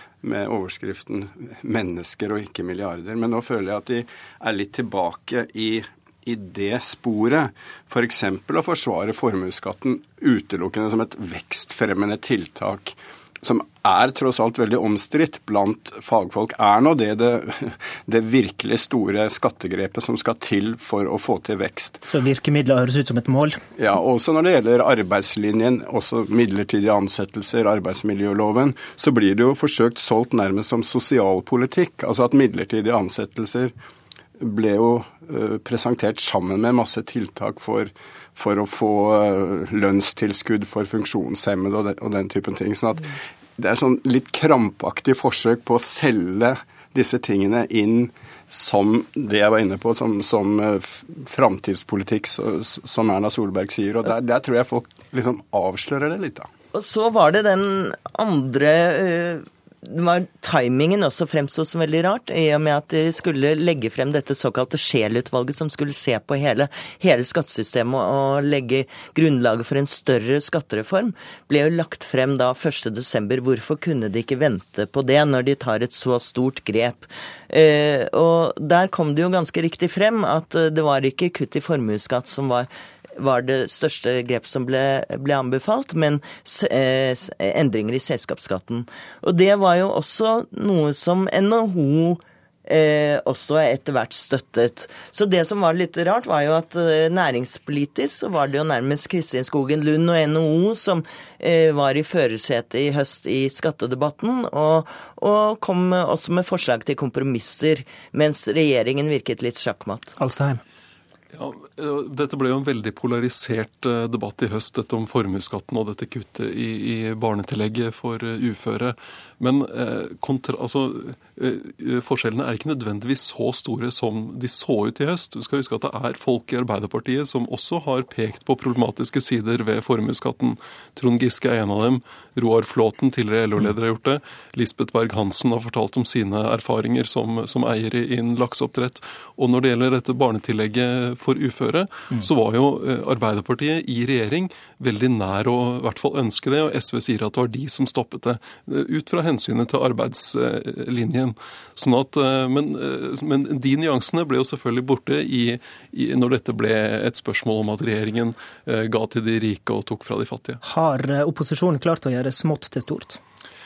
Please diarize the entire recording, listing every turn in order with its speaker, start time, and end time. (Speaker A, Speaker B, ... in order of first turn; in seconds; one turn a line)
Speaker A: 0.2-22.0
Speaker B: 22.1-23.6
Speaker A: 23.8-33.7
Speaker A: 34.4-56.5
Speaker C: 56.7-110.2
Speaker B: 110.2-110.6
Speaker D: 111.3-160.6
Speaker B: 160.6-163.2